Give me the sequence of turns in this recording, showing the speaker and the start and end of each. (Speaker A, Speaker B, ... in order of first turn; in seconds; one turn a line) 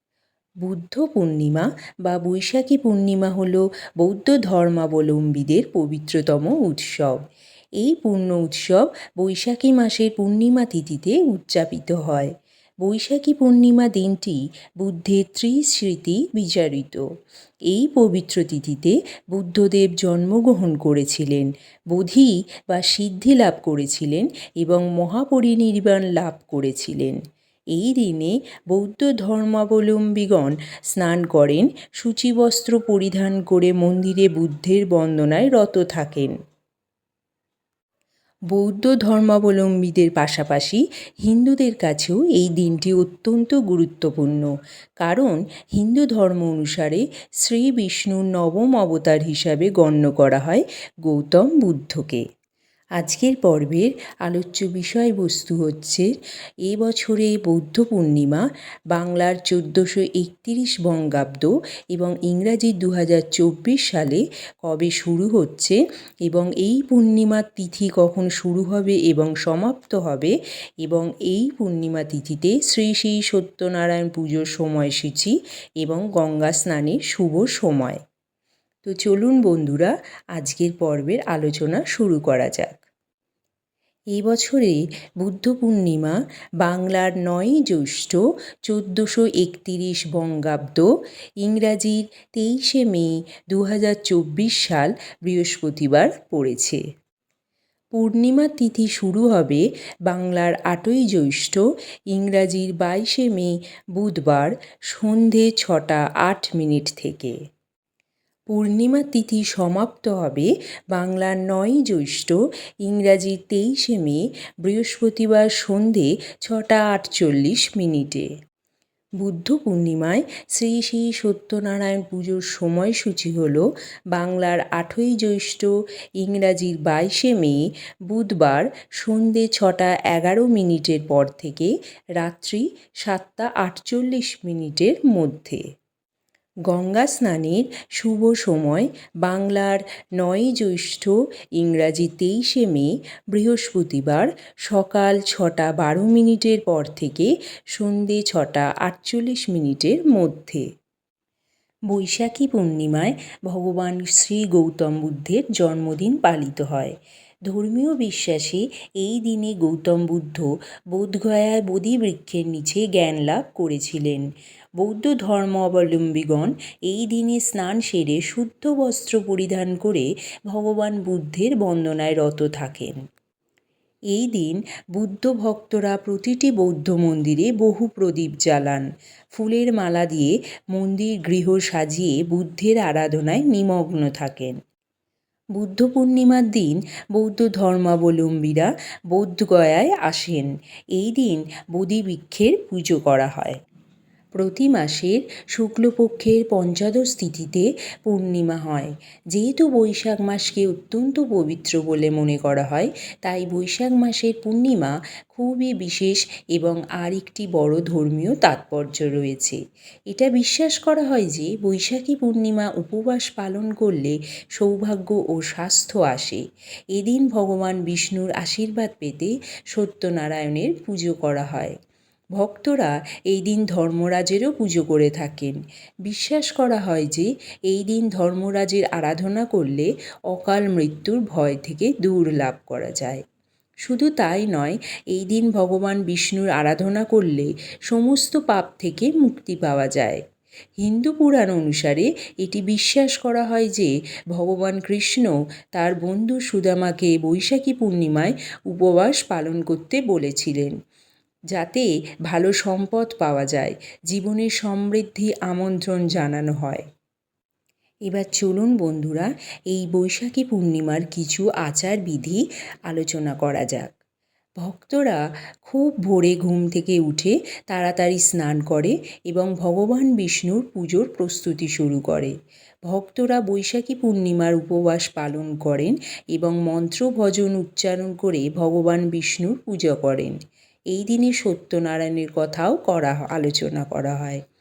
Speaker A: 0.6-7.2
Speaker A: 7.8-17.0
Speaker A: 17.7-27.2
Speaker A: 27.7-36.3
Speaker A: 38.5-44.5
Speaker A: 45.0-52.2
Speaker A: 53.0-56.1
Speaker A: 56.6-78.0
Speaker A: 78.8-82.8
Speaker A: 84.1-90.9
Speaker A: 91.4-96.8
Speaker A: 97.9-101.6
Speaker A: 102.1-107.3
Speaker A: 108.5-118.3
Speaker A: 119.2-135.6
Speaker A: 136.7-150.7
Speaker A: 151.9-156.9
Speaker A: 157.5-164.3
Speaker A: 164.8-172.9
Speaker A: 174.1-184.6
Speaker A: 185.6-193.6
Speaker A: 194.3-209.6
Speaker A: 210.1-221.7
Speaker A: 222.3-233.2
Speaker A: 233.8-240.2
Speaker A: 240.8-250.7
Speaker A: 251.5-256.8
Speaker A: 258.1-263.9
Speaker A: 264.6-272.3
Speaker A: 272.9-280.4
Speaker A: 280.9-284.4